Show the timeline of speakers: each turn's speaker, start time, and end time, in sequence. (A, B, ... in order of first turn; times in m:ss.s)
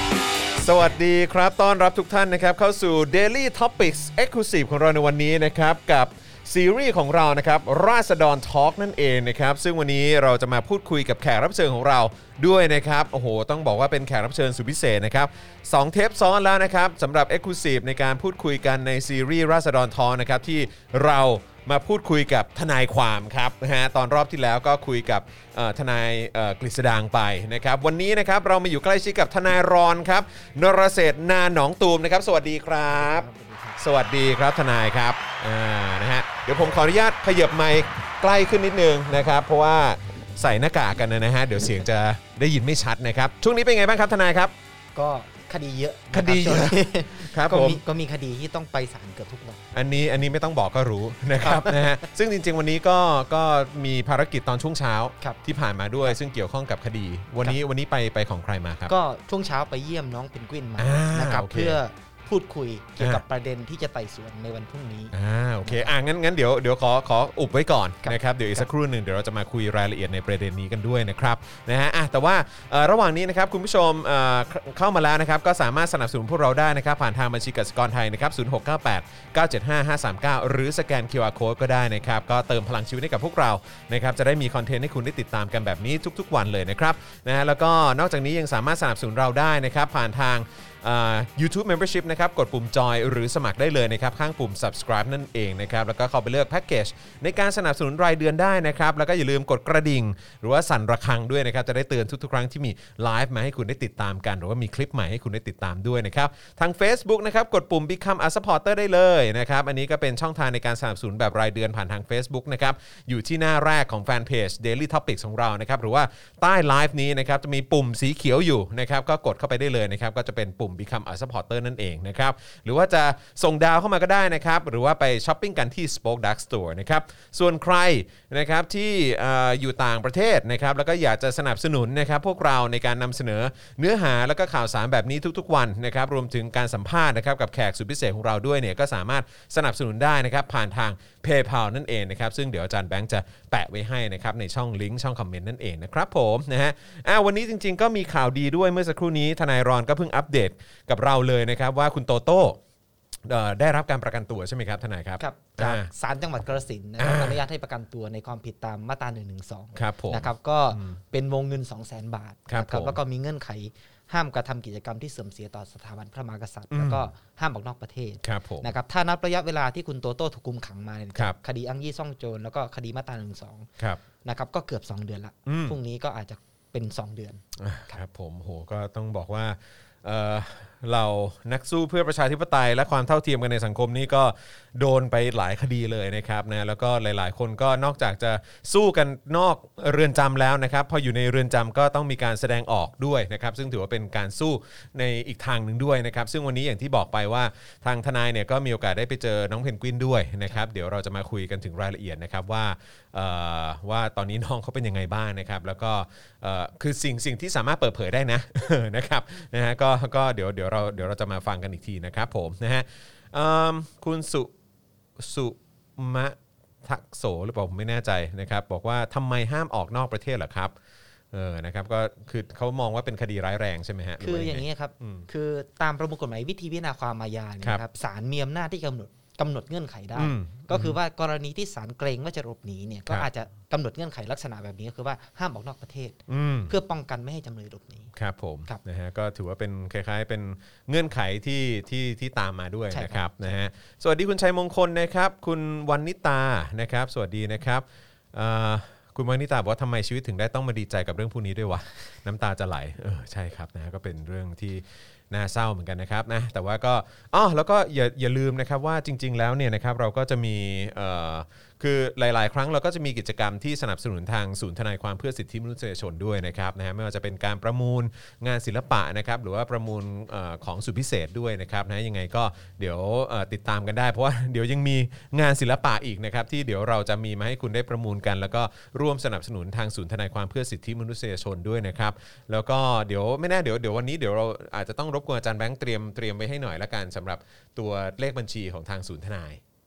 0:00.6-0:33.3 A
0:32.9-0:33.8 B
0:33.8-0:44.5 A
0:44.9-0:49.6 B
0:46.1-0:47.8 A
0:49.7-0:58.9 A
0:51.4-0:52.1 B
0:58.9-1:05.9 B
1:00.8-1:01.8 A
1:05.1-2:32.6 A
1:08.0-1:08.7 B
2:33.2-2:35.9 A
2:35.2-2:53.7 B
2:37.0-2:37.4 A
2:39.7-2:41.0 A
2:42.5-2:43.0 A
2:46.7-2:47.1 A
2:48.2-2:48.7 A
2:54.2-2:58.0 B
2:55.4-2:55.8 A
2:57.6-3:34.5 A
3:35.2-3:40.7 A
3:41.3-3:45.3 A
3:44.2-3:58.1 B
3:50.1-3:51.0 A
3:56.3-3:56.7 A
3:58.1-4:49.6 A
4:02.9-4:03.5 B